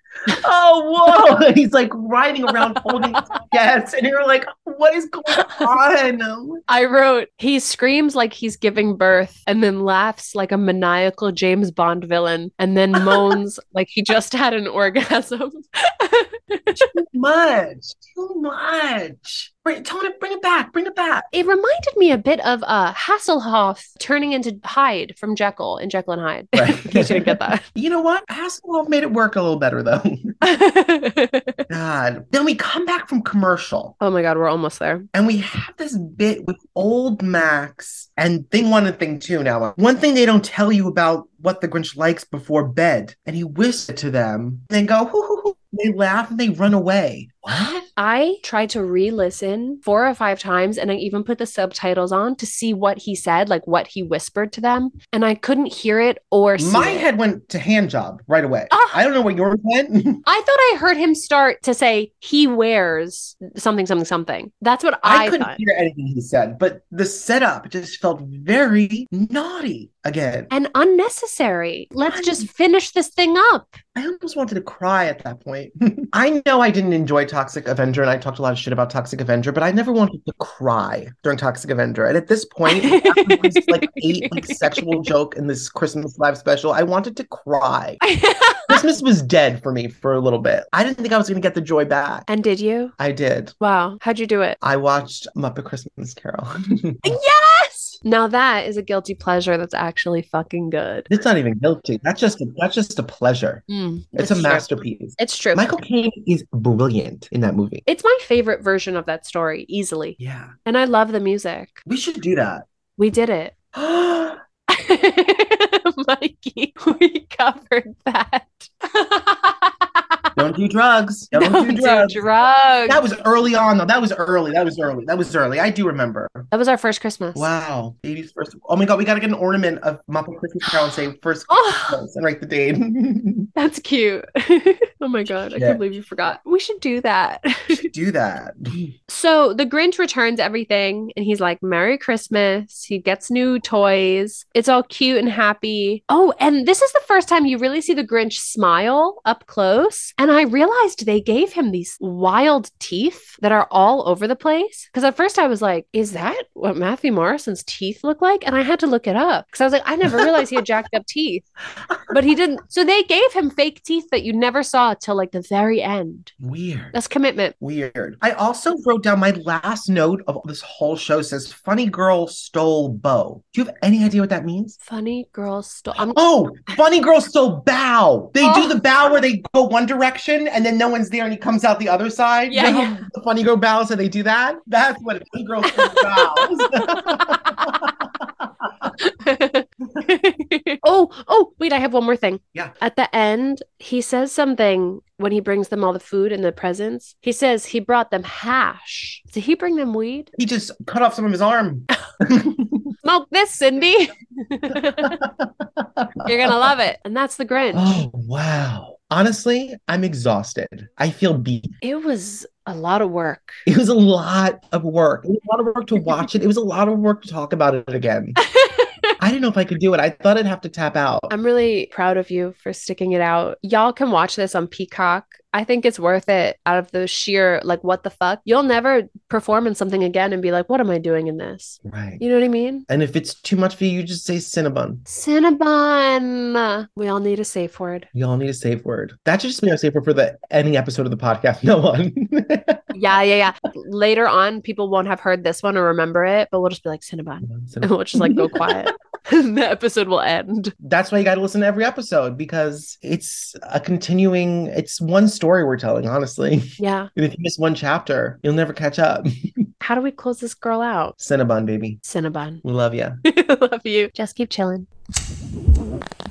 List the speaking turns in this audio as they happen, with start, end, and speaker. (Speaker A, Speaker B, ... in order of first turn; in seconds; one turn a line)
Speaker A: 0.3-6.6
Speaker B: 5.3-5.7
Speaker B: 6.7-16.9
Speaker A: 13.0-13.4
Speaker A: 16.8-21.3
Speaker B: 21.3-27.6
Speaker A: 26.5-30.4
Speaker B: 30.4-31.6
Speaker A: 31.7-34.0
Speaker B: 34.0-35.1
Speaker A: 35.1-47.9
Speaker B: 48.0-57.1
Speaker A: 56.6-60.2
Speaker B: 58.7-59.0
Speaker B: 60.3-65.6
Speaker A: 65.0-70.5
Speaker B: 70.5-73.8
Speaker A: 72.1-72.5
Speaker A: 74.0-88.0
Speaker B: 82.7-85.1
Speaker B: 88.0-88.8
Speaker A: 88.7-92.3
Speaker B: 92.3-93.0
Speaker A: 93.0-93.5
Speaker B: 93.6-94.6
Speaker A: 94.6-97.2
Speaker B: 97.0-101.1
Speaker A: 101.1-107.8
Speaker B: 103.7-105.6
Speaker B: 107.9-111.8
Speaker A: 110.2-110.5
Speaker A: 111.8-112.7
Speaker B: 113.0-113.5
Speaker A: 113.7-114.4
Speaker B: 114.7-120.2
Speaker A: 120.4-122.2
Speaker B: 121.3-123.0
Speaker A: 122.9-126.5
Speaker B: 126.5-127.5
Speaker A: 127.3-133.5
Speaker B: 131.5-132.0
Speaker B: 133.6-137.9
Speaker A: 135.5-135.8
Speaker A: 137.7-138.9
Speaker B: 139.1-161.5
Speaker A: 160.1-160.4
Speaker B: 162.1-166.3
Speaker A: 166.4-166.9
Speaker B: 166.9-167.6
Speaker A: 167.6-174.8
Speaker B: 174.8-176.2
Speaker A: 176.0-188.9
Speaker B: 178.4-178.8
Speaker B: 182.5-183.1
Speaker B: 185.7-187.7
Speaker B: 189.0-200.3
Speaker A: 200.4-202.9
Speaker B: 203.0-205.2
Speaker A: 205.0-206.7
Speaker B: 206.2-208.1
Speaker A: 207.7-211.7
Speaker B: 211.8-213.6
Speaker A: 213.7-218.4
Speaker B: 218.5-218.9
Speaker A: 219.2-221.3
Speaker B: 221.3-232.9
Speaker A: 231.8-232.2
Speaker A: 232.9-235.0
Speaker B: 235.1-238.1
Speaker A: 238.1-242.9
Speaker B: 242.9-250.7
Speaker A: 247.4-248.9
Speaker A: 250.8-259.7
Speaker B: 256.8-257.1
Speaker B: 259.8-261.1
Speaker A: 261.2-262.0
Speaker B: 262.1-262.6
Speaker A: 262.6-263.2
Speaker B: 263.2-264.9